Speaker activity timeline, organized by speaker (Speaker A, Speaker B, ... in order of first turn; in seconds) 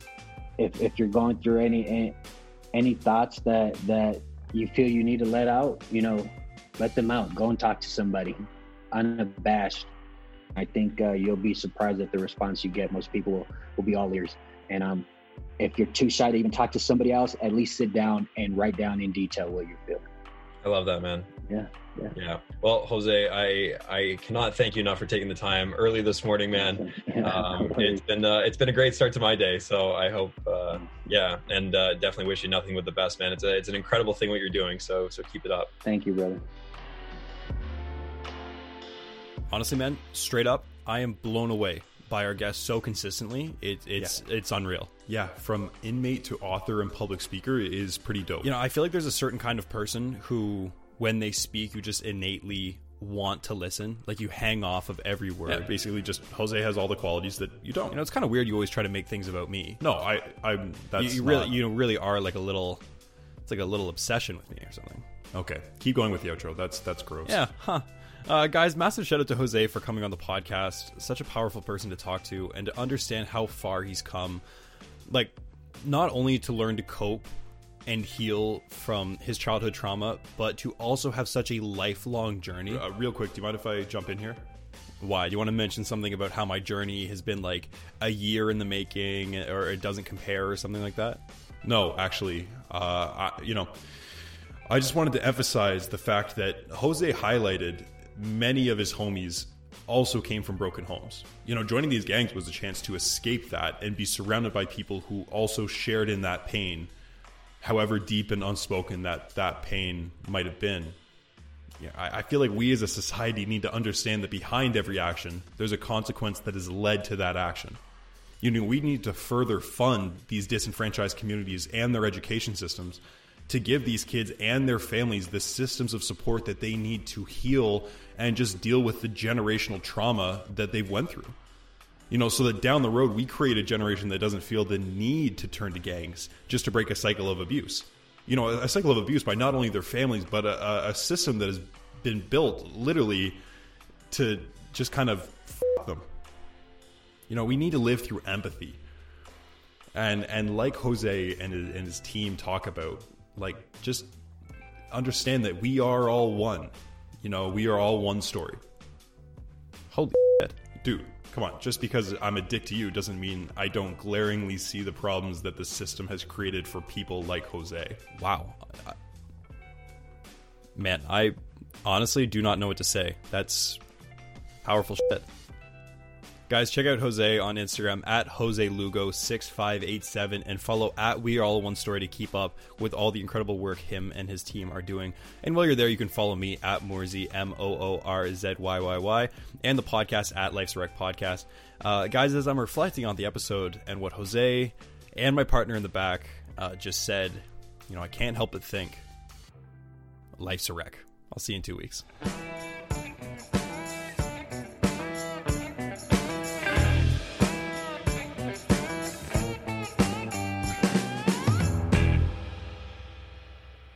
Speaker A: 0.6-2.1, 2.7-9.9, 10.5-15.1, 15.6-20.0, 21.5-22.1, 26.5-28.0, 35.8-36.4
Speaker B: 20.6-21.3, 22.1-35.7
Speaker C: 39.5-45.0, 48.4-55.7, 57.9-59.8, 61.0-62.8, 63.5-65.0, 67.2-74.4, 75.1-77.3, 77.9-82.8, 85.0-91.2, 159.9-160.6, 168.1-168.9, 170.8-173.8, 174.6-175.2, 176.5-199.0, 200.4-202.0
Speaker D: 45.0-48.5, 55.5-58.0, 59.8-61.6, 65.3-67.4, 82.7-84.4, 91.6-93.7, 94.7-106.9, 107.6-111.0, 111.8-117.8, 118.4-131.3, 132.1-143.4, 144.1-146.1, 147.3-148.8, 149.9-154.1, 154.9-158.6, 160.7-168.1